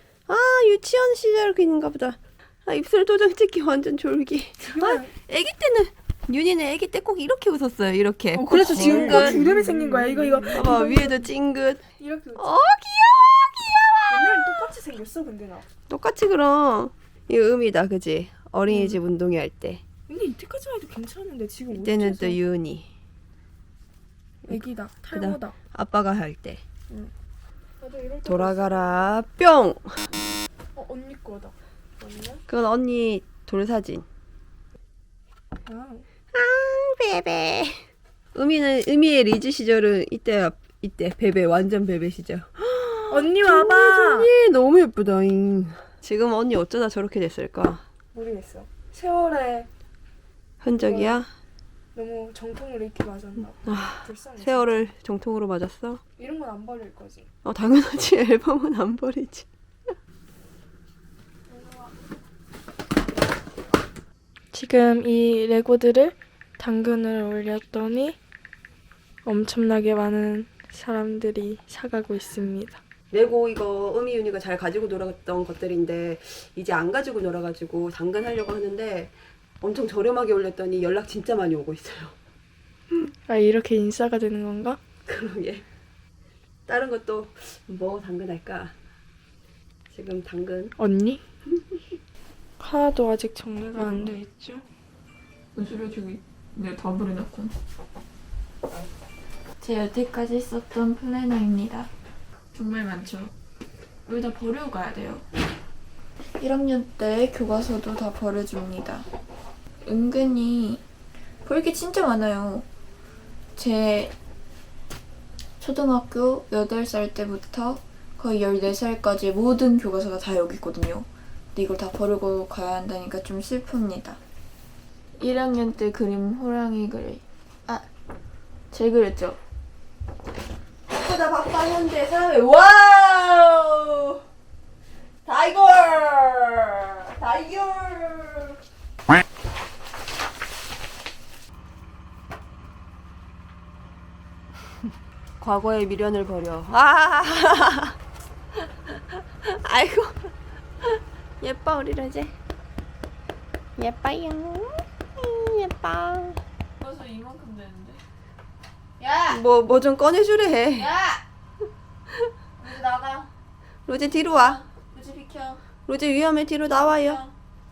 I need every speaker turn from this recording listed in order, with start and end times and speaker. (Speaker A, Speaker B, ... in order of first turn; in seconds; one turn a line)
Speaker A: 0.3-9.5
Speaker B: 4.6-5.1
Speaker B: 8.3-11.3
Speaker C: 10.1-10.5
Speaker A: 10.5-11.8
Speaker B: 12.0-12.6
Speaker A: 12.4-14.6
Speaker B: 14.1-15.7
Speaker A: 15.9-19.8
Speaker B: 18.7-19.0
Speaker B: 20.1-22.4
Speaker A: 21.7-22.9
Speaker A: 24.5-26.6
Speaker B: 24.5-25.6
Speaker B: 27.8-29.1
Speaker A: 28.2-29.9
Speaker B: 30.8-32.4
Speaker A: 32.5-34.0
Speaker B: 35.6-36.1
Speaker A: 36.3-37.8
Speaker A: 38.4-47.8
Speaker B: 43.1-44.3
Speaker B: 48.1-49.7
Speaker A: 50.6-51.3
Speaker B: 50.8-51.2
Speaker B: 51.9-54.9
Speaker A: 53.6-56.0
Speaker B: 56.2-57.3
Speaker A: 57.4-59.5
Speaker B: 61.5-61.9
Speaker B: 64.5-68.2
Speaker B: 69.2-72.8
Speaker A: 73.1-82.2
Speaker B: 83.3-84.8
Speaker A: 85.1-85.7
Speaker A: 86.7-88.7
Speaker A: 89.9-90.8
Speaker B: 90.8-91.2
Speaker B: 92.6-94.7
Speaker C: 93.8-94.1
Speaker C: 95.5-97.5
Speaker C: 99.6-101.9
Speaker C: 102.5-103.3
Speaker C: 104.1-105.2
Speaker C: 106.4-109.1
Speaker C: 109.8-110.8
Speaker C: 111.4-112.7
Speaker C: 113.6-114.1
Speaker C: 115.6-124.2
Speaker C: 125.2-127.9
Speaker C: 128.7-129.4
Speaker A: 130.9-134.2
Speaker A: 135.2-138.6
Speaker A: 145.4-148.0
Speaker A: 148.9-150.3
Speaker A: 150.8-152.3
Speaker A: 153.8-156.4
Speaker C: 156.8-158.0
Speaker C: 159.0-159.4
Speaker A: 159.3-160.9
Speaker C: 160.8-161.2
Speaker C: 162.6-163.3
Speaker A: 163.9-164.7
Speaker C: 164.3-165.6
Speaker A: 165.9-167.2
Speaker C: 166.7-167.3